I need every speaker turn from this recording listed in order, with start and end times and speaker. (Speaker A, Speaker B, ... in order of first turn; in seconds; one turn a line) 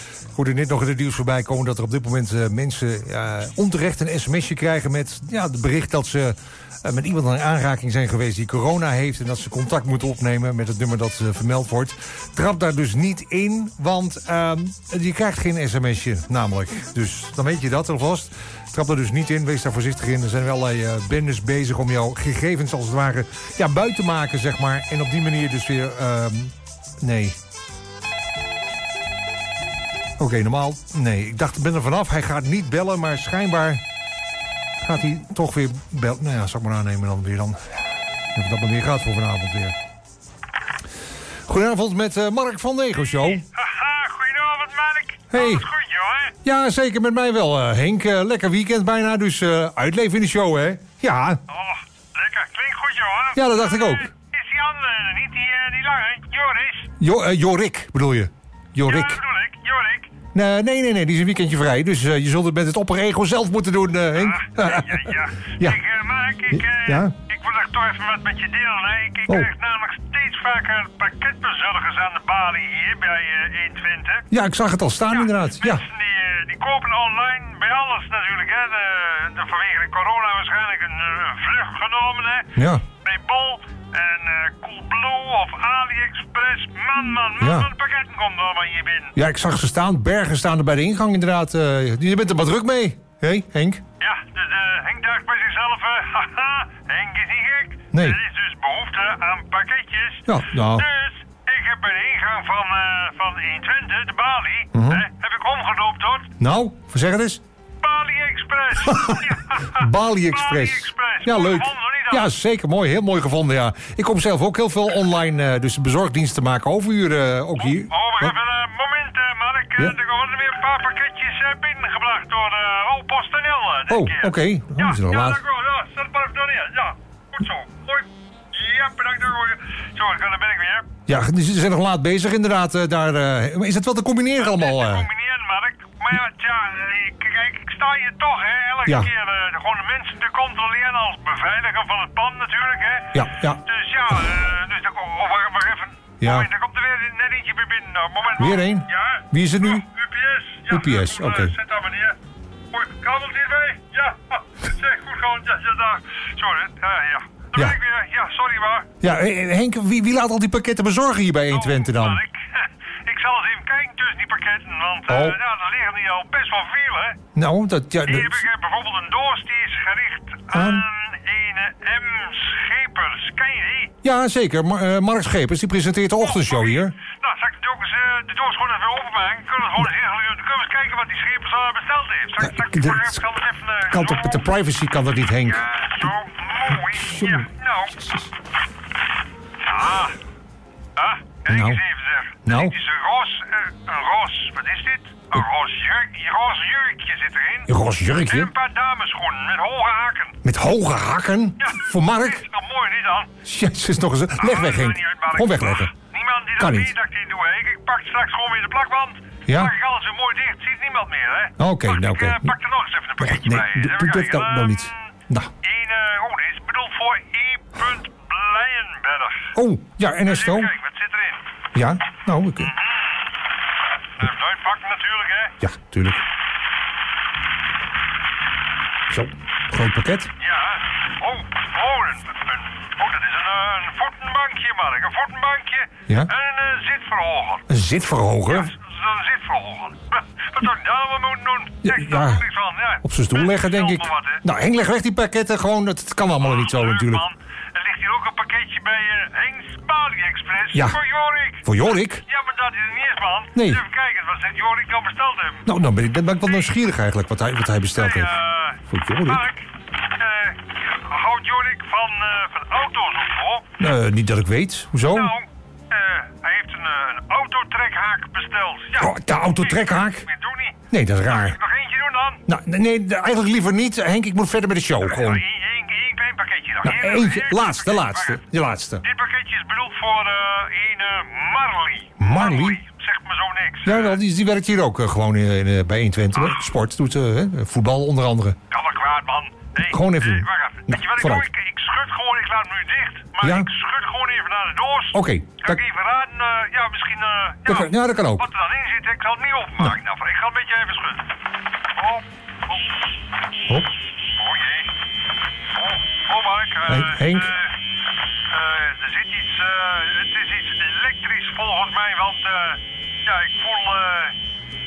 Speaker A: 0.3-27.4
Speaker A: 30.2-33.8
Speaker A: 34.8-37.7
Speaker A: 38.3-39.8
Speaker A: 41.4-43.4
Speaker B: 43.2-46.4
Speaker A: 45.3-45.7
Speaker A: 46.4-51.4
Speaker B: 51.5-56.9
Speaker A: 53.3-54.1
Speaker A: 57.0-59.2
Speaker B: 58.8-60.1
Speaker A: 60.3-65.8
Speaker B: 64.1-74.3
Speaker A: 66.5-67.1
Speaker A: 74.3-75.8
Speaker B: 75.1-89.2
Speaker A: 82.5-82.8
Speaker A: 87.4-87.7
Speaker A: 89.2-93.8
Speaker B: 94.0-106.3
Speaker A: 97.9-98.2
Speaker A: 100.3-100.9
Speaker A: 104.7-105.0
Speaker A: 106.4-107.4
Speaker B: 107.8-112.3
Speaker A: 108.8-118.3
Speaker B: 117.6-130.9
Speaker A: 123.9-125.4
Speaker A: 131.1-135.1
Speaker B: 134.4-152.2
Speaker A: 143.1-143.6
Speaker A: 146.2-146.5
Speaker A: 148.4-149.8
Speaker A: 150.7-151.6
Speaker B: 152.7-159.0
Speaker A: 159.0-162.2
Speaker B: 161.5-167.2
Speaker A: 165.1-165.4
Speaker A: 167.3-168.4
Speaker B: 168.0-173.9
Speaker A: 170.5-170.8
Speaker A: 174.0-176.9
Speaker B: 176.2-184.4
Speaker A: 182.4-183.2
Speaker A: 183.9-186.1
Speaker B: 185.4-188.1
Speaker A: 186.8-188.3
Speaker B: 189.6-190.2
Speaker B: 190.9-200.4
Speaker A: 191.5-191.8
Speaker A: 192.4-192.7
Speaker A: 197.7-198.5
Speaker A: 200.4-202.4
Speaker B: 201.6-203.4
Speaker A: 203.4-205.9
Speaker B: 204.4-215.1
Speaker A: 206.6-206.9
Speaker A: 209.5-209.7
Speaker A: 211.6-212.6
Speaker A: 213.2-215.5
Speaker B: 215.6-219.6
Speaker A: 219.5-220.7
Speaker B: 220.2-221.4
Speaker A: 221.7-222.7
Speaker B: 222.6-223.3
Speaker B: 224.2-225.6
Speaker A: 225.6-226.2
Speaker A: 229.1-230.3
Speaker B: 230.4-237.7
Speaker A: 237.7-238.7
Speaker B: 238.5-244.4
Speaker A: 241.8-247.2
Speaker B: 246.4-255.7
Speaker A: 250.7-251.0
Speaker A: 251.6-252.2
Speaker A: 253.5-253.8
Speaker A: 255.7-259.4
Speaker B: 257.9-263.7
Speaker A: 263.8-265.3
Speaker B: 265.1-272.4
Speaker A: 269.0-270.3
Speaker A: 270.9-271.6
Speaker A: 272.5-275.4
Speaker B: 275.0-278.4
Speaker A: 276.8-279.0
Speaker B: 279.0-284.2
Speaker A: 282.2-282.8
Speaker A: 283.8-288.6
Speaker B: 286.3-286.6
Speaker B: 288.7-301.3
Speaker A: 289.8-291.5
Speaker A: 293.4-293.7
Speaker A: 295.1-295.8
Speaker A: 297.6-298.4
Speaker B: 301.9-302.8
Speaker B: 304.3-304.9
Speaker B: 305.7-307.8
Speaker A: 306.9-307.5
Speaker B: 308.5-314.4